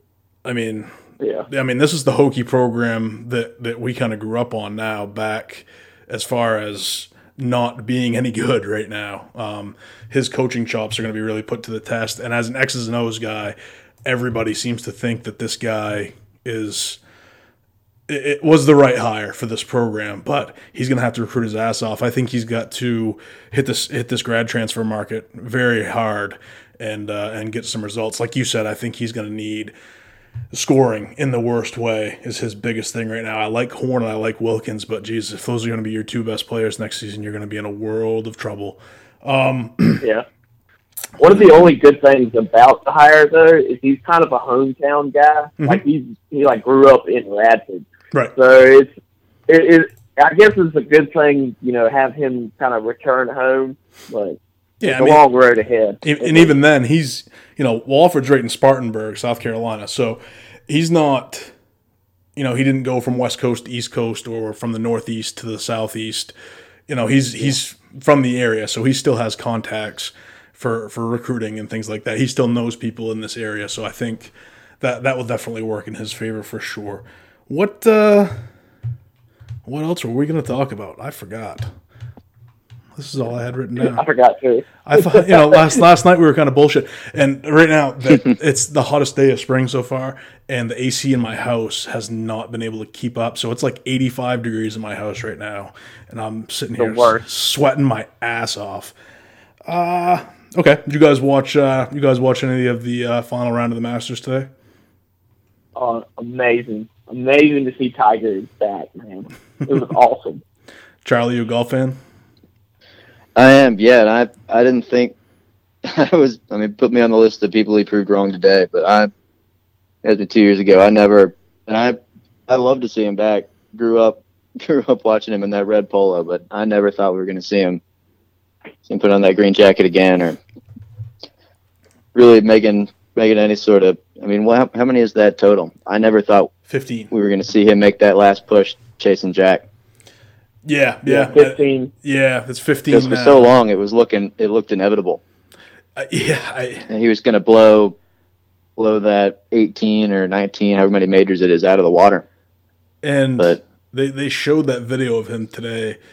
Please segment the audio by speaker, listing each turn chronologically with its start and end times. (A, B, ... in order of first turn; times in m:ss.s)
0:00.4-0:00.9 A
0:01.2-0:01.5 B
0:01.5-0:17.0 A
0:18.1-0:29.7 A
0:30.5-0:40.0 A
0:41.2-0:48.9 B
0:49.5-0:56.5 B
0:54.8-0:55.2 A
0:56.0-1:01.5 A
1:02.4-1:06.3 A
1:06.9-1:18.4 A
1:19.6-1:21.7 A
1:23.0-1:24.0 A
1:23.8-1:25.6 B
1:24.8-1:38.9 A
1:36.8-1:37.2 B
1:39.7-1:44.5 A
1:45.7-1:50.4 B
1:51.0-1:52.0 A
1:53.4-1:55.1 C
1:55.8-1:59.1 C
2:00.0-2:07.8 C
2:08.8-2:10.4 C
2:12.1-2:16.5 C
2:16.7-2:17.1 A
2:17.1-2:19.6 C
2:20.6-2:23.5 A
2:21.0-2:21.9 B
2:22.9-2:25.2 C
2:26.0-2:26.9 A
2:26.9-2:28.0 C
2:28.8-2:32.2 C
2:33.0-2:36.0 A